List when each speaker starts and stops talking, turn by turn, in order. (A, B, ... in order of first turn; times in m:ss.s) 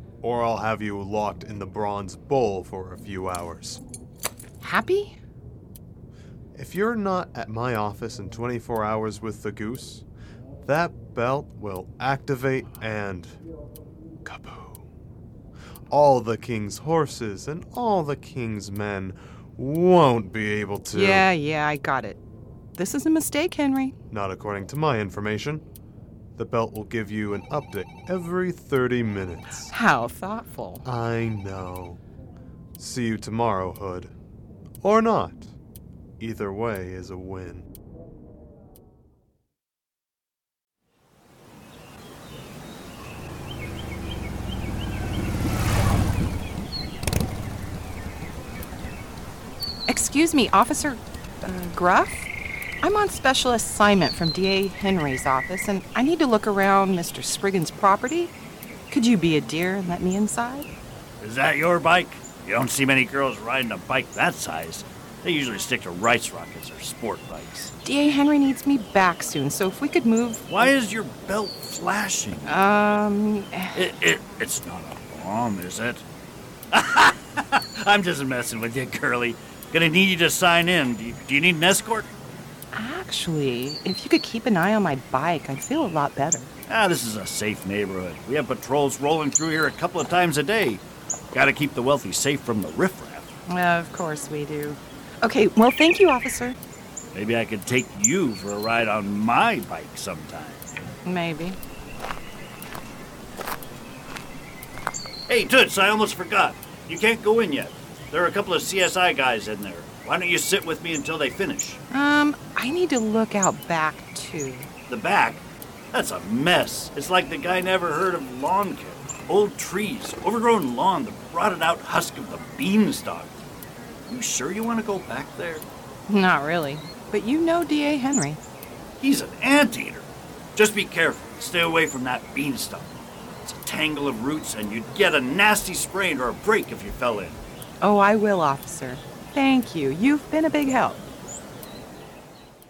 0:00.2-0:03.8 A
0:04.6-0:05.2 B
0:06.5-0:10.0 A
0:10.6-0:13.4 A
0:14.2-0:14.9 A
0:15.9-0:21.3 A
0:20.9-0:22.2 B
0:22.7-0:24.0 B
0:24.1-0:25.6 A
0:26.4-0:29.7 A
0:29.6-0:30.8 B
0:30.8-0:32.0 A
0:32.8-0:34.1 A
0:34.8-0:35.5 A
0:36.2-0:37.7 A
0:49.9-0:58.3 B
0:58.9-1:00.7 B
1:01.2-1:07.7 C
1:07.8-1:10.5 B
1:10.5-1:12.5 C
1:12.4-1:13.8 B
1:13.7-1:16.0 C
1:16.7-1:22.1 C
1:22.7-1:26.5 B
1:26.7-1:30.8 C
1:31.3-1:33.3 C
1:33.5-1:36.6 B
1:37.1-1:40.7 C
1:41.0-1:41.6 B
1:45.3-1:51.8 C
1:51.9-1:54.7 B
1:54.9-1:55.4 C
1:55.9-2:03.4 C
2:04.1-2:05.6 C
2:06.1-2:08.4 B
2:09.0-2:17.4 C
2:17.8-2:21.1 B